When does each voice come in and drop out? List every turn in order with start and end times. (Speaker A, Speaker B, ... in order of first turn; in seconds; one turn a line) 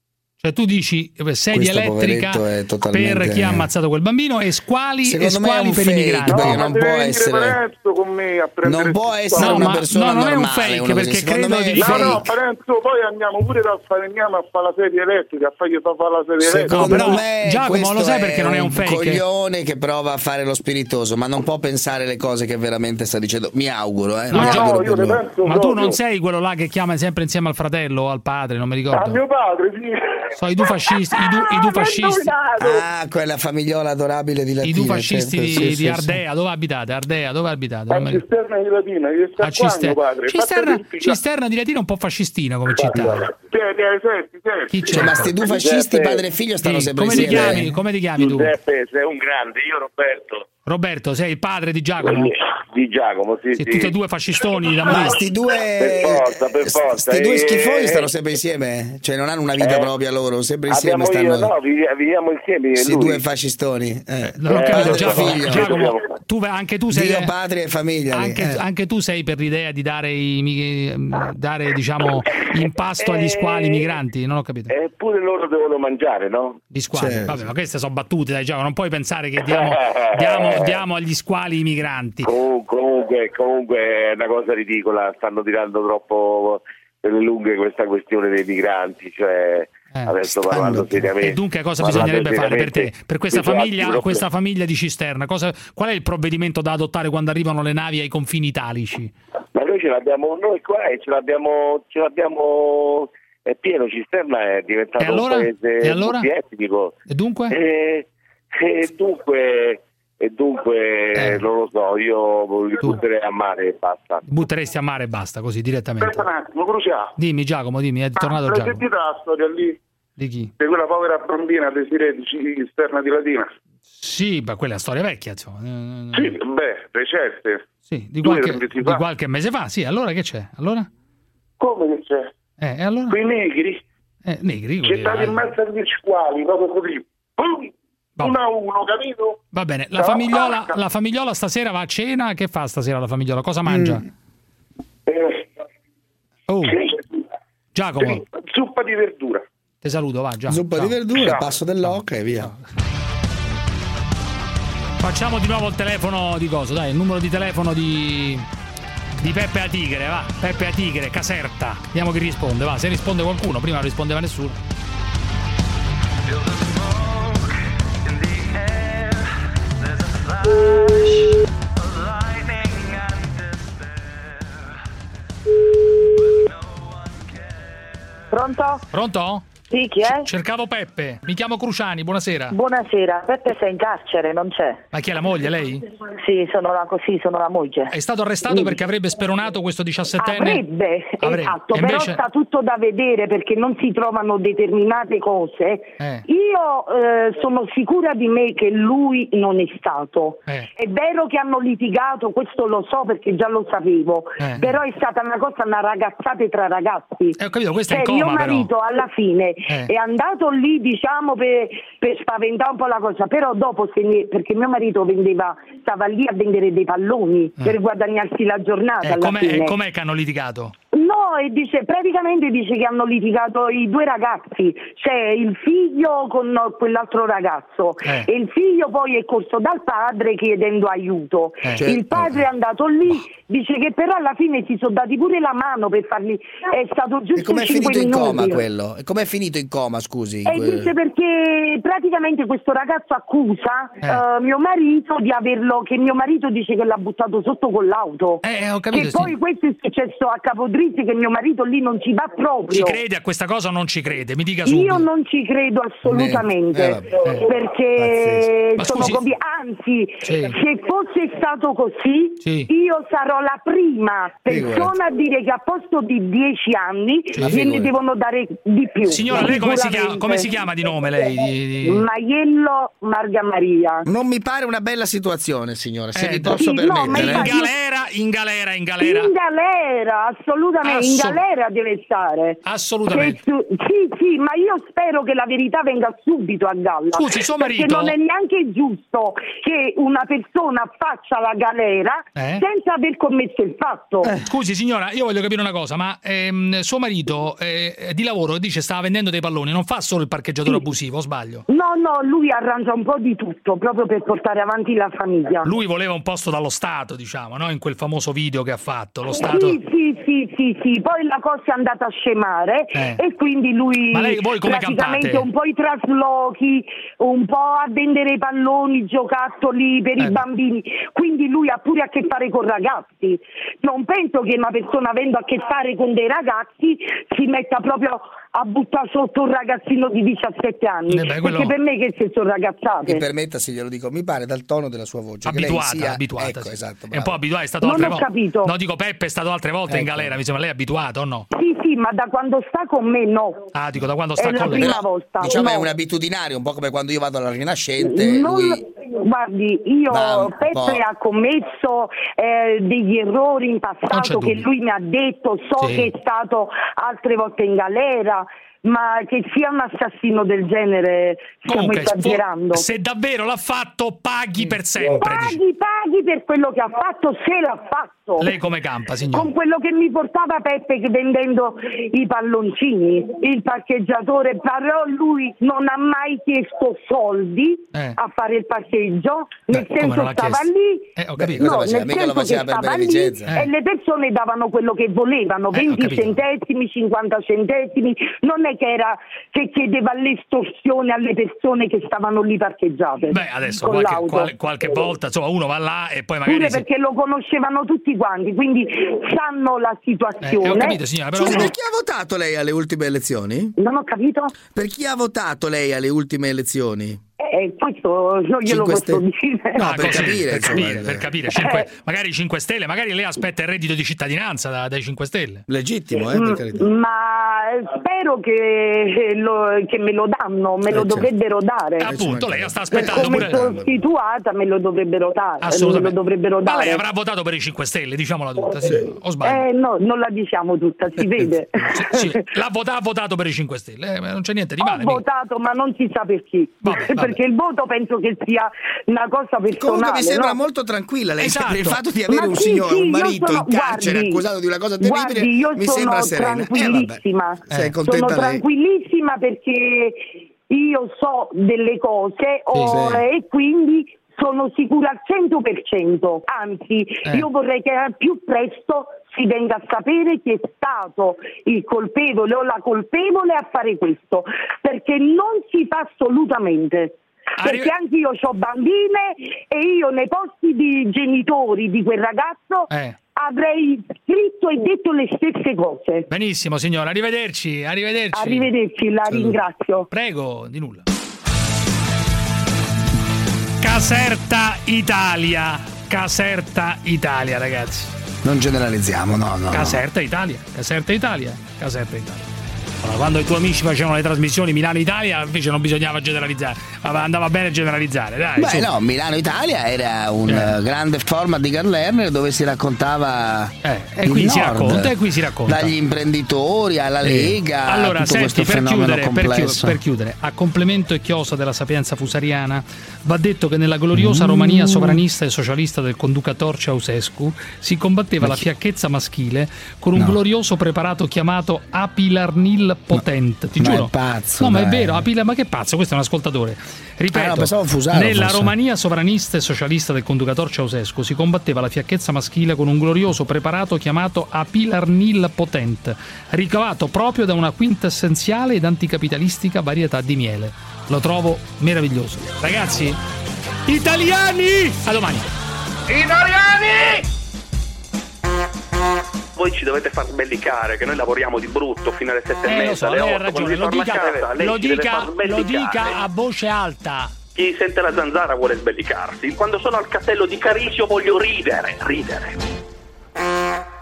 Speaker A: 0.4-6.7
Speaker B: 1.5-3.7
Speaker B: 5.0-7.6
Speaker C: 6.3-9.6
Speaker B: 8.6-12.2
Speaker A: 9.3-12.2
Speaker C: 11.7-17.0
Speaker B: 16.4-25.2
Speaker A: 16.7-19.2
Speaker A: 24.3-24.8
Speaker C: 24.4-25.9
Speaker A: 25.4-29.2
Speaker C: 28.9-30.2
Speaker A: 30.4-32.3
Speaker D: 31.8-32.5
Speaker B: 32.6-36.2
Speaker A: 34.6-38.2
Speaker C: 37.9-41.1
Speaker A: 39.4-43.3
Speaker C: 43.5-44.7
Speaker A: 44.7-45.3
Speaker B: 44.9-47.7
Speaker E: 45.4-46.2
Speaker A: 46.6-48.5
Speaker E: 48.2-50.4
Speaker A: 50.6-52.3
Speaker E: 52.0-53.9
Speaker A: 53.5-55.2
Speaker B: 54.9-61.5
Speaker E: 55.8-58.1
Speaker E: 59.6-59.9
Speaker E: 60.7-63.2
Speaker B: 62.8-65.8
Speaker A: 64.2-67.3
Speaker E: 64.5-66.0
Speaker B: 66.9-68.6
Speaker A: 68.1-74.7
Speaker E: 73.0-73.9
Speaker E: 74.7-76.6
Speaker A: 76.7-82.3
Speaker B: 76.9-77.5
Speaker E: 79.5-80.7
Speaker E: 82.2-94.2
Speaker A: 89.9-99.1
Speaker E: 99.5-106.9
Speaker A: 105.0-106.3
Speaker A: 107.1-107.6
Speaker E: 107.5-114.2
Speaker A: 111.1-111.4
Speaker A: 114.2-116.2
Speaker C: 116.0-117.1
Speaker A: 117.2-118.8
Speaker C: 118.2-119.8
Speaker A: 120.2-120.5
Speaker C: 120.6-123.5
Speaker A: 124.0-126.3
Speaker C: 126.1-127.6
Speaker A: 127.9-130.9
Speaker C: 128.2-129.0
Speaker C: 131.6-132.3
Speaker A: 132.6-133.2
Speaker C: 133.1-133.8
Speaker A: 134.2-135.5
Speaker C: 134.8-137.7
Speaker C: 138.2-139.4
Speaker A: 139.5-144.0
Speaker C: 140.0-140.7
Speaker B: 143.7-144.0
Speaker C: 145.1-145.4
Speaker A: 146.5-146.8
Speaker A: 147.7-148.2
Speaker C: 148.0-149.4
Speaker A: 149.8-151.0
Speaker B: 150.5-152.5
Speaker C: 151.2-151.4
Speaker A: 151.8-152.6
Speaker A: 155.0-158.4
Speaker A: 159.2-164.6
Speaker D: 178.3-178.8
Speaker A: 178.9-182.6
Speaker D: 179.7-180.2
Speaker D: 182.5-184.8
Speaker A: 184.9-185.8
Speaker D: 186.1-187.9
Speaker A: 187.9-190.6
Speaker D: 188.5-188.8
Speaker D: 190.2-207.3
Speaker A: 191.2-192.2
Speaker A: 204.4-204.7
Speaker A: 207.3-208.7
Speaker D: 207.9-219.7
Speaker A: 219.0-220.7
Speaker D: 220.9-238.6
Speaker A: 231.6-231.9
Speaker B: 231.8-232.4
Speaker B: 237.3-240.9
Speaker D: 240.4-248.4
Speaker A: 248.4-249.3
Speaker D: 248.9-253.0
Speaker A: 252.7-255.1
Speaker D: 254.6-270.5
Speaker B: 256.1-257.1
Speaker A: 257.2-257.5
Speaker B: 258.0-258.5
Speaker A: 258.8-259.2
Speaker A: 260.2-260.6
Speaker A: 262.4-262.7
Speaker B: 264.5-264.9
Speaker A: 267.3-267.6
Speaker B: 267.4-267.9
Speaker A: 269.0-272.1
Speaker D: 271.8-274.1
Speaker B: 274.1-277.5
Speaker A: 276.1-279.3
Speaker D: 276.5-277.7
Speaker D: 279.0-294.3
Speaker A: 280.8-281.4
Speaker A: 282.6-283.4
Speaker A: 287.1-288.1
Speaker A: 292.3-292.6
Speaker A: 294.4-301.6
Speaker D: 301.7-305.6
Speaker A: 305.6-309.8
Speaker D: 309.4-333.2
Speaker A: 312.9-313.2
Speaker A: 314.1-315.5
Speaker A: 331.1-331.7
Speaker B: 333.0-337.4
Speaker A: 335.4-341.4
Speaker D: 337.8-338.7
Speaker B: 339.9-340.3
Speaker D: 341.5-343.7
Speaker A: 343.7-345.0
Speaker D: 344.4-345.9
Speaker B: 344.6-348.8
Speaker D: 348.0-362.8
Speaker B: 350.1-351.0
Speaker A: 354.1-354.7
Speaker A: 355.8-356.1
Speaker A: 361.7-365.6
Speaker D: 365.0-368.5
Speaker A: 368.4-369.5
Speaker D: 369.3-381.0
Speaker A: 379.7-381.7
Speaker B: 381.4-383.5
Speaker D: 381.6-394.5
Speaker A: 383.4-383.7
Speaker A: 385.7-386.4
Speaker A: 393.3-396.8
Speaker D: 396.5-401.6
Speaker A: 400.4-401.7
Speaker B: 401.4-403.7
Speaker D: 403.8-404.5
Speaker B: 404.7-407.2
Speaker D: 407.4-410.2
Speaker B: 408.6-409.2
Speaker A: 409.8-415.6
Speaker B: 409.8-411.2
Speaker D: 411.6-411.8
Speaker B: 415.7-416.9
Speaker D: 416.1-422.1
Speaker B: 420.8-421.3
Speaker A: 422.0-423.7
Speaker B: 422.0-424.0
Speaker D: 422.9-427.0
Speaker A: 425.6-429.6
Speaker D: 429.4-432.3
Speaker A: 431.9-435.2
Speaker D: 434.8-440.6
Speaker A: 436.8-437.4
Speaker B: 439.7-448.6
Speaker A: 441.4-442.0
Speaker D: 442.3-444.4
Speaker D: 445.0-476.2
Speaker A: 452.7-453.2
Speaker A: 467.6-467.9
Speaker A: 472.9-473.2
Speaker A: 476.3-478.7
Speaker D: 478.3-480.1
Speaker A: 480.1-481.0
Speaker A: 483.8-488.1
Speaker B: 488.4-490.0
Speaker A: 489.7-492.5
Speaker A: 493.0-498.9
Speaker B: 498.6-505.1
Speaker A: 500.5-500.7
Speaker A: 503.8-505.9
Speaker B: 505.6-510.0
Speaker A: 507.2-543.2
Speaker B: 514.1-515.2
Speaker B: 523.8-525.2
Speaker B: 527.3-528.7
Speaker A: 543.9-545.5
Speaker F: 546.1-547.0
Speaker F: 549.5-556.2
Speaker A: 552.6-557.3
Speaker F: 557.5-562.5